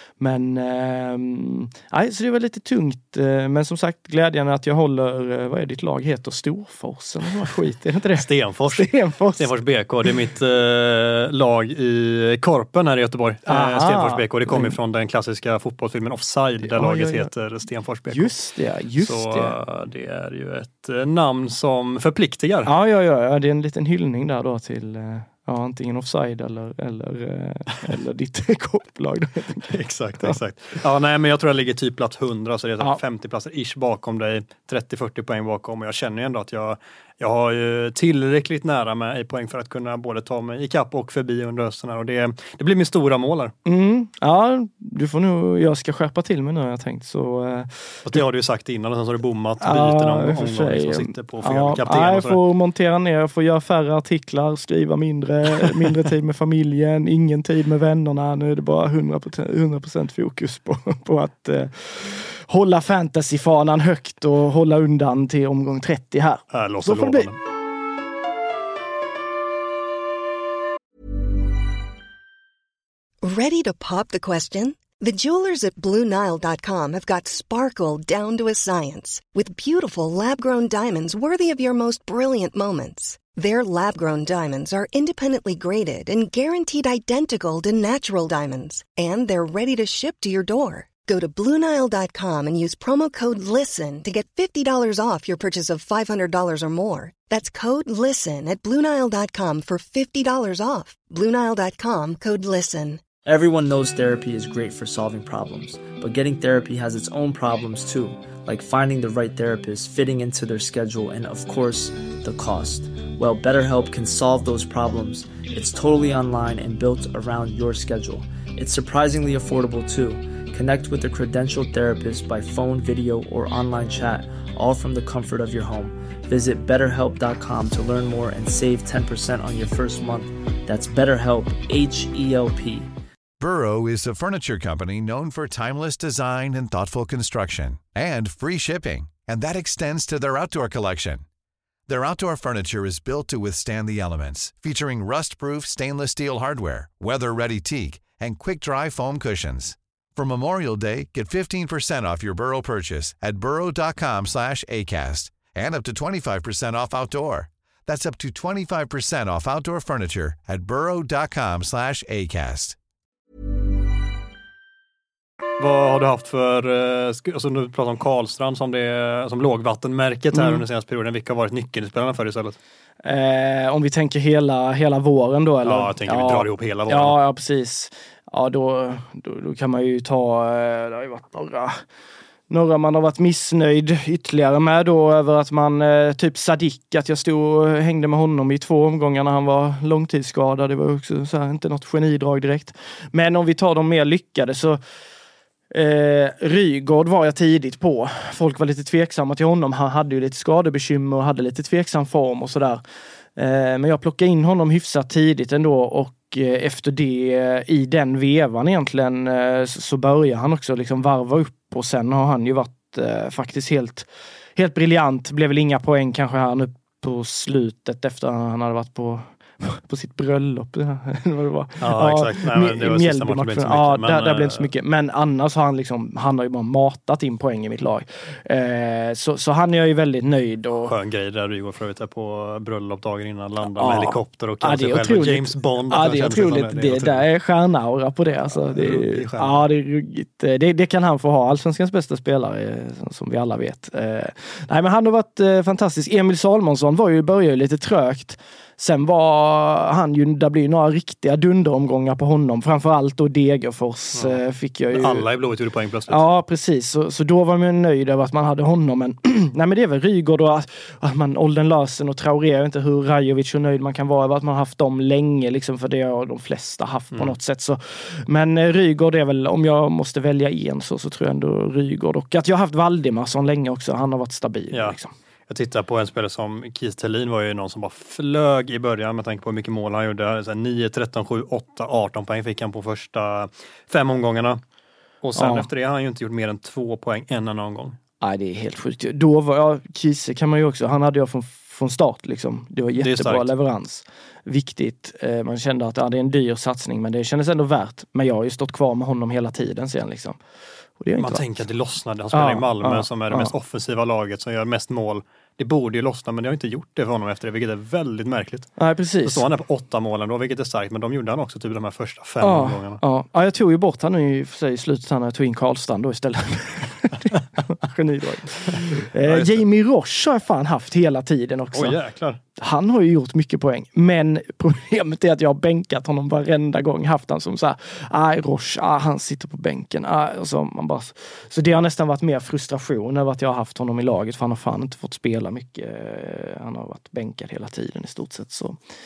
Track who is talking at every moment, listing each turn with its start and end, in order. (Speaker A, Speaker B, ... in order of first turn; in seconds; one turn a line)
Speaker A: 0.2-9.5
Speaker B: 8.2-18.3
Speaker A: 13.5-14.8
Speaker A: 16.6-17.3
Speaker A: 18.1-19.6
Speaker B: 19.0-22.7
Speaker A: 22.7-30.4
Speaker B: 29.7-43.5
Speaker A: 43.6-48.2
Speaker B: 48.0-52.4
Speaker A: 49.6-67.3
Speaker B: 66.5-67.4
Speaker C: 73.2-103.0
Speaker D: 103.2-132.9
Speaker E: 133.4-141.2
Speaker E: 141.9-162.8
Speaker B: 165.6-172.6
Speaker A: 170.3-170.6
Speaker A: 173.0-181.8
Speaker B: 175.6-177.2
Speaker A: 182.5-194.8
Speaker A: 195.7-202.8
Speaker A: 203.4-230.9
Speaker B: 221.8-224.7
Speaker B: 230.8-237.3
Speaker A: 233.7-255.2
Speaker B: 238.5-239.7
Speaker B: 254.9-256.2
Speaker A: 256.1-275.1
Speaker B: 274.7-275.0
Speaker B: 275.5-284.6
Speaker B: 285.2-288.0
Speaker A: 285.4-285.7
Speaker A: 288.2-300.4
Speaker B: 293.0-293.5
Speaker A: 301.0-301.4
Speaker B: 301.2-308.7
Speaker A: 302.3-303.5
Speaker A: 308.8-309.5
Speaker B: 309.2-313.0
Speaker A: 312.4-322.0
Speaker B: 319.2-319.6
Speaker B: 321.7-322.4
Speaker A: 322.6-338.8